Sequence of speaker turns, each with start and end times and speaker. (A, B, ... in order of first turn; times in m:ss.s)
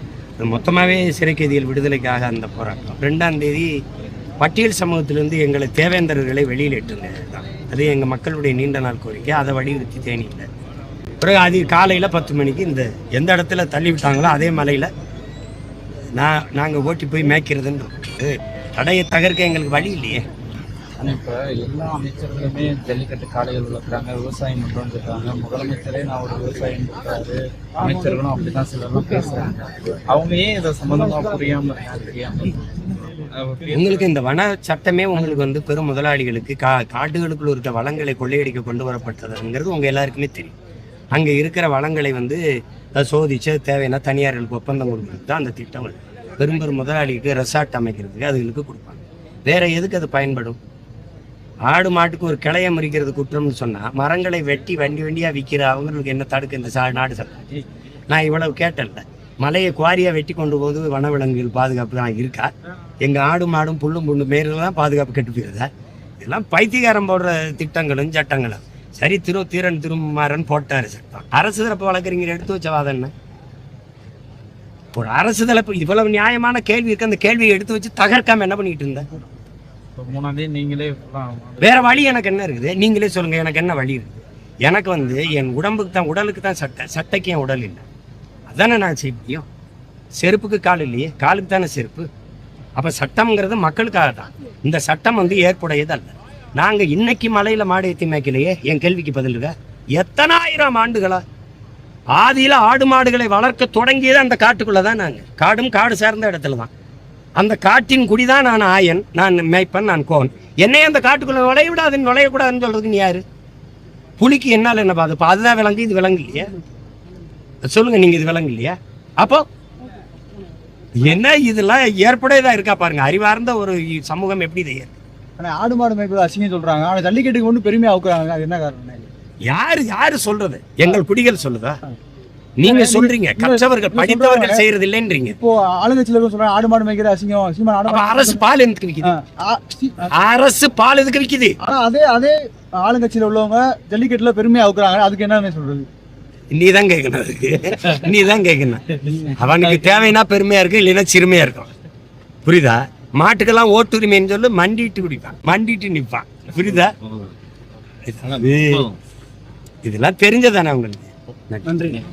0:00.4-0:03.7 A
0:04.4-0:10.5 A
0:11.2-0:14.9 A
0:16.2-0:20.3 A
0:21.0-0:34.1 B
0:33.7-0:40.5 A
0:41.1-0:42.4 A
0:43.0-0:50.6 A
0:51.7-0:57.5 A
0:58.1-1:02.5 A
1:03.0-1:05.7 A
1:06.2-1:13.1 A
1:15.0-1:19.1 A
1:20.0-1:21.8 B
1:21.6-1:27.8 A
1:28.5-1:29.5 A
1:30.2-1:32.1 A
1:32.8-1:41.2 A
1:42.2-1:46.7 A
1:47.4-1:53.2 A
1:54.2-1:56.5 A
1:57.7-1:59.5 A
2:01.0-2:04.9 A
2:05.4-2:09.1 C
2:09.5-2:11.8 A
2:12.6-2:15.4 A
2:12.6-2:14.6 C
2:15.4-2:18.4 C
2:17.9-2:19.1 A
2:19.0-2:20.1 C
2:20.1-2:21.6 A
2:21.6-2:25.9 C
2:26.5-2:31.7 A
2:32.4-2:36.9 A
2:38.1-2:38.9 A
2:39.8-2:42.0 A